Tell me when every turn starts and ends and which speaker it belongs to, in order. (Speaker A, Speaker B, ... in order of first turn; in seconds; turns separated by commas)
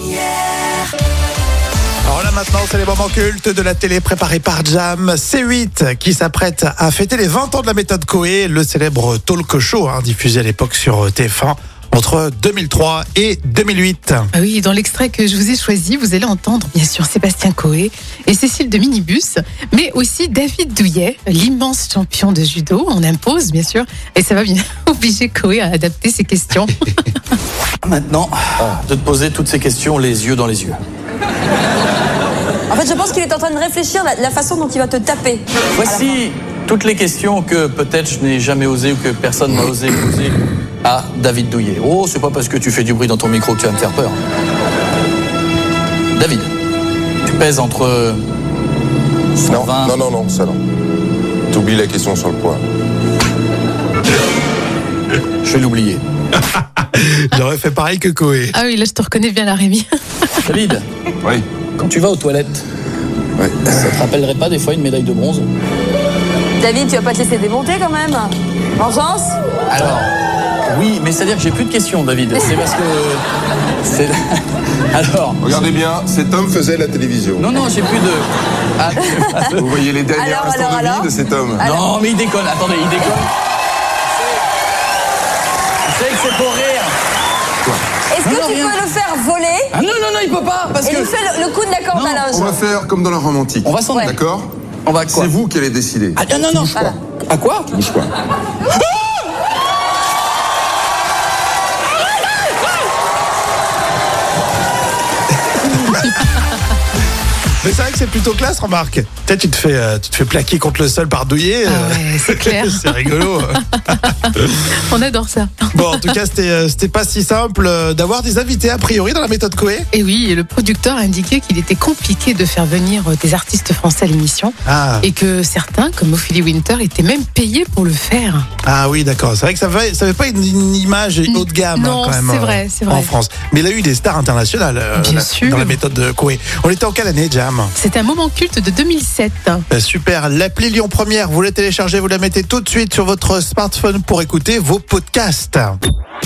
Speaker A: 2.1-14.3, Speaker B: 14.3-27.1, Speaker C: 27.8-30.8, Speaker D: 32.7-36.1, Speaker C: 35.8-44.2, Speaker C: 46.1-46.5, Speaker C: 47.2-48.2, Speaker C: 49.4-50.0, Speaker E: 49.5-50.6, Speaker E: 51.5-52.6, Speaker C: 55.4-56.0, Speaker A: 56.5-58.6, Speaker B: 58.5-60.4, Speaker C: 60.5-60.9, Speaker C: 61.8-62.6, Speaker E: 63.4-63.9, Speaker C: 63.7-65.5, Speaker D: 66.6-69.4, Speaker C: 69.7-70.1, Speaker C: 70.7-73.2, Speaker C: 73.8-75.4, Speaker E: 75.4-77.6, Speaker C: 77.4-79.7, Speaker E: 79.6-81.8, Speaker D: 80.2-81.1, Speaker B: 80.8-81.1, Speaker C: 81.6-83.3, Speaker C: 85.9-86.9, Speaker D: 88.1-89.7, Speaker C: 88.2-88.8, Speaker C: 89.7-91.1, Speaker D: 90.8-92.6, Speaker C: 91.9-92.3, Speaker E: 92.3-94.5, Speaker C: 93.6-94.2, Speaker C: 94.9-95.3, Speaker E: 95.1-96.8, Speaker C: 96.2-97.7, Speaker E: 97.7-98.1, Speaker A: 105.7-106.1, Speaker B: 105.7-106.4, Speaker A: 107.6-114.7, Speaker B: 111.7-113.4, Speaker B: 113.9-116.2, Speaker A: 115.7-119.9, Speaker B: 119.9-128.5, Speaker A: 124.7-125.1, Speaker A: 128.6-137.7, Speaker B: 131.3-133.1, Speaker B: 135.0-135.8, Speaker B: 137.8-139.7, Speaker A: 139.7-145.8